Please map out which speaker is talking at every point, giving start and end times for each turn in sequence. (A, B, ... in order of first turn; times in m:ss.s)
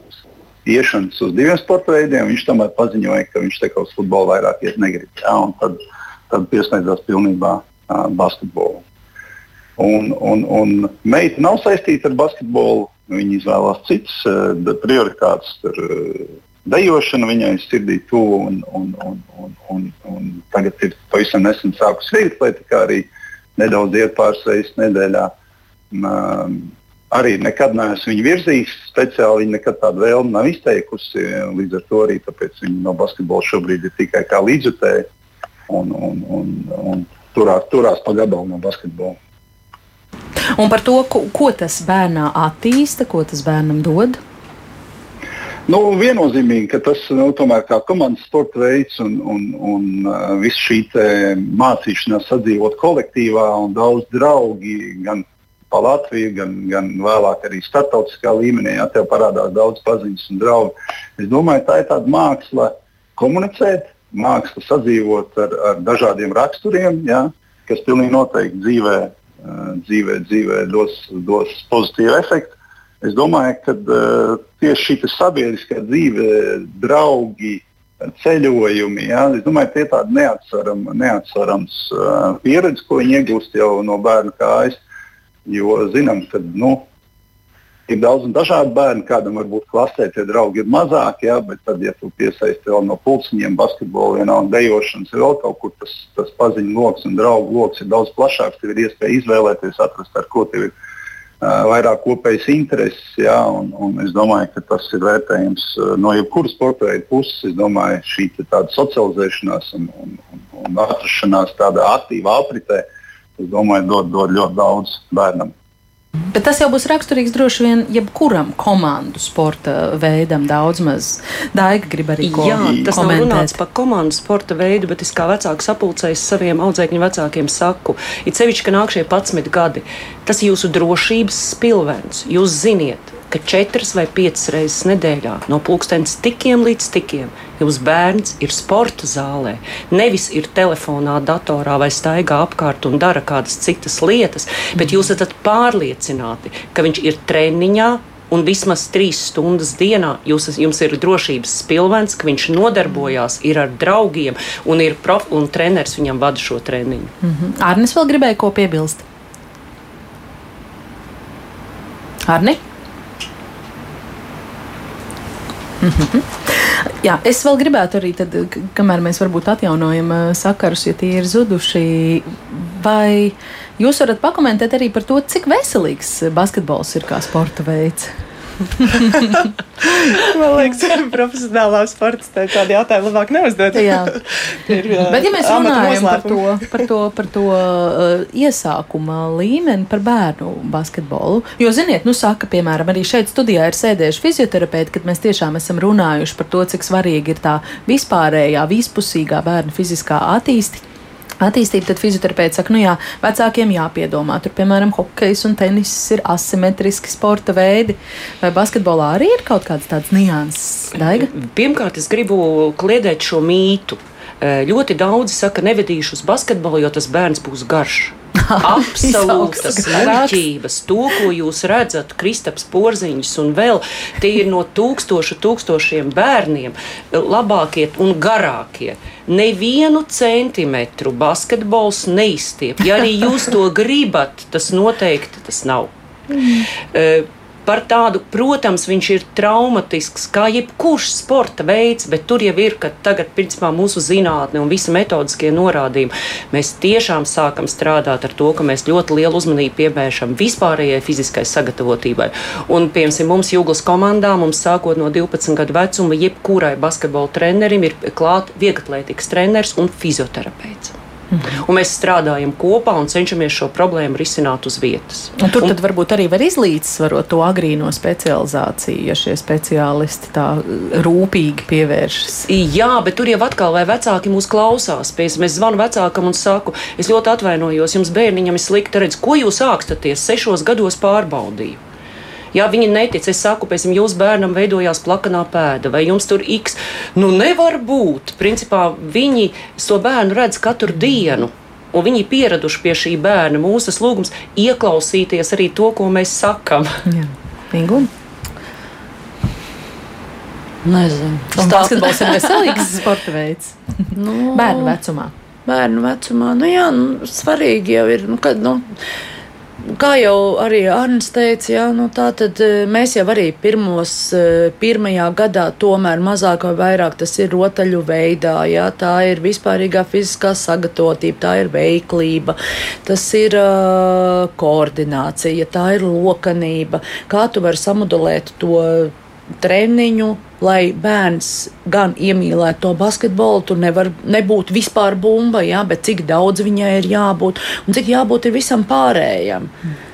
0:00.6-0:05.8 A
0:06.3-0:08.8 A
0:09.8-0:25.3 A
0:25.9-0:35.1 A
0:35.7-0:39.2 A
0:40.6-0:44.2 B
0:45.7-1:24.8 A
1:25.4-1:26.8 A
1:27.9-1:40.7 A
1:41.4-1:52.9 A
1:53.4-1:55.5 A
1:56.3-2:03.6 B
2:02.2-2:37.1 C
2:37.2-2:39.0 B
2:42.2-2:42.6 B
2:45.8-2:58.1 B
2:58.8-2:59.4 B
3:00.0-3:06.5 D
3:03.7-3:04.2 B
3:04.7-3:20.8 B
3:21.4-3:31.3 B
3:31.1-3:55.9 C
3:38.4-3:40.4 B
3:56.9-4:20.9 C
4:21.3-4:21.6 B
4:21.6-4:25.7 C
4:25.4-4:32.5 B
4:32.5-4:41.8 C
4:42.5-4:57.0 C
4:57.1-4:58.1 B
5:00.8-5:02.4 E
5:01.5-5:05.3 B
5:04.2-5:05.0 E
5:05.6-5:08.8 E
5:09.9-5:39.7 E